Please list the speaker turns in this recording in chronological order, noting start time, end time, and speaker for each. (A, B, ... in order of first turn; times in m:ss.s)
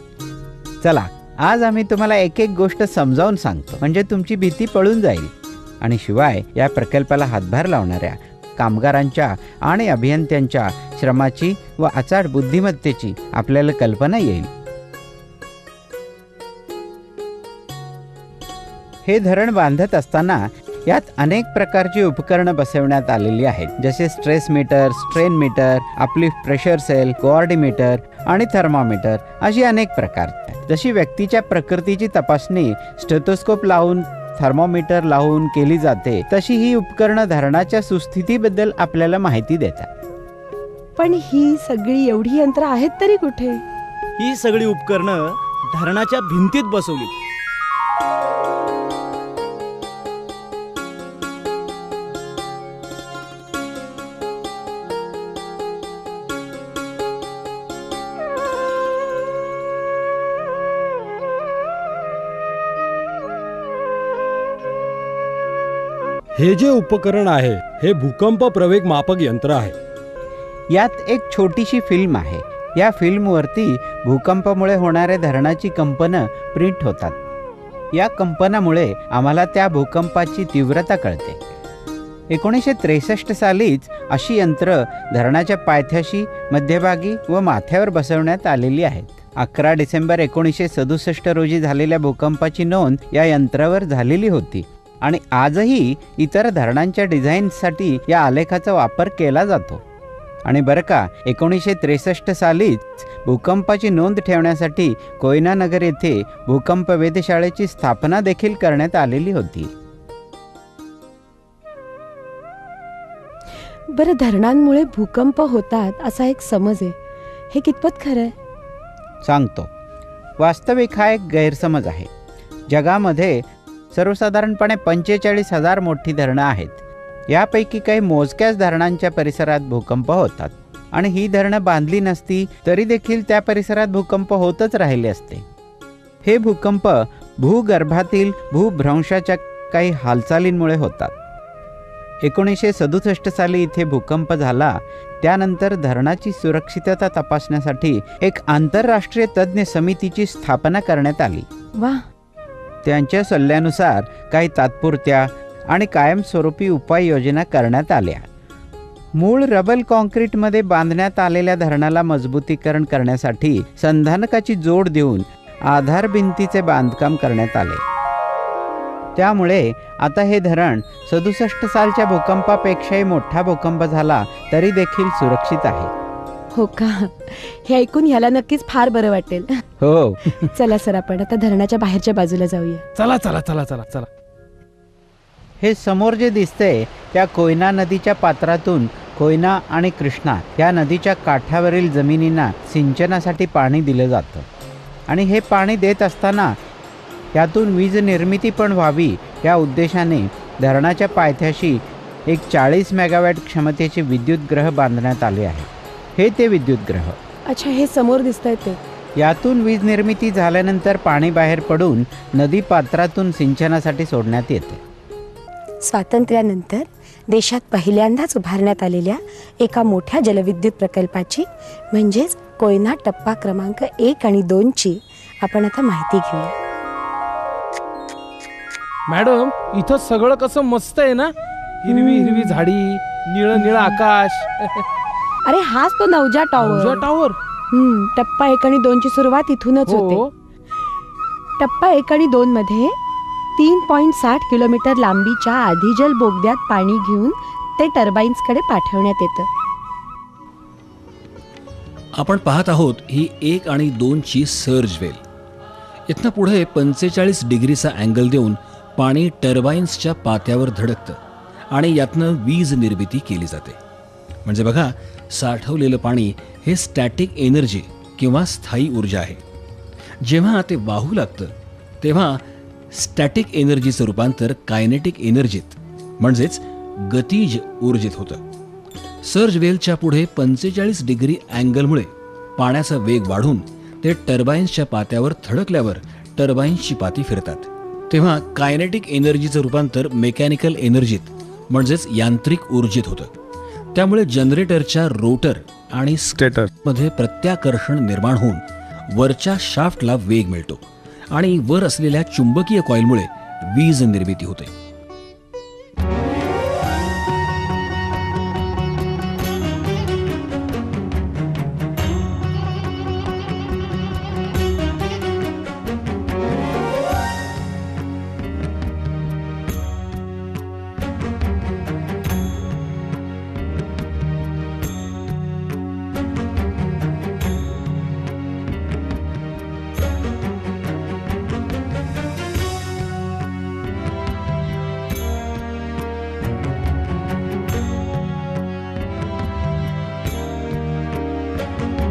0:00.8-0:14.5 A
0:19.1-0:39.9 A
0:41.0-0:43.6 B
0:44.2-0:47.1 C
1:06.4-1:09.8 D
1:10.7-1:17.2 A
1:17.9-1:21.4 A
1:22.3-1:39.8 A
1:40.4-1:49.7 A
1:53.9-1:57.0 B
1:57.5-1:58.3 B
1:59.2-1:59.7 A
2:00.4-2:02.1 A
2:02.7-2:15.4 A
2:16.2-2:21.1 A
2:22.2-2:31.5 A
2:31.8-2:32.1 B
2:32.8-2:38.3 A
2:39.2-2:47.8 A
2:49.2-2:55.9 A
2:56.5-2:59.6 B
2:59.8-3:00.2 A
3:00.4-3:02.9 B
3:03.0-3:04.1 E
3:05.6-3:14.5 A
3:15.1-3:16.6 A
3:17.3-3:27.2 A
3:27.5-3:28.8 B
3:29.2-3:34.8 A
3:35.8-3:46.6 B
3:49.1-3:51.3 E
3:51.8-3:54.8 E
3:51.9-3:52.7 B
3:53.6-3:54.0 B
3:55.5-3:57.1 B
3:56.6-3:57.4 E
3:57.7-4:00.2 B
3:59.9-4:00.3 E
4:01.6-4:03.0 B
4:03.6-4:09.5 B
4:12.2-4:15.2 F
4:16.1-4:21.2 F
4:21.7-4:23.8 F
4:24.4-4:29.4 F
4:30.2-4:32.4 F
4:32.9-4:38.4 F
4:39.2-4:53.3 F
4:54.0-5:04.7 F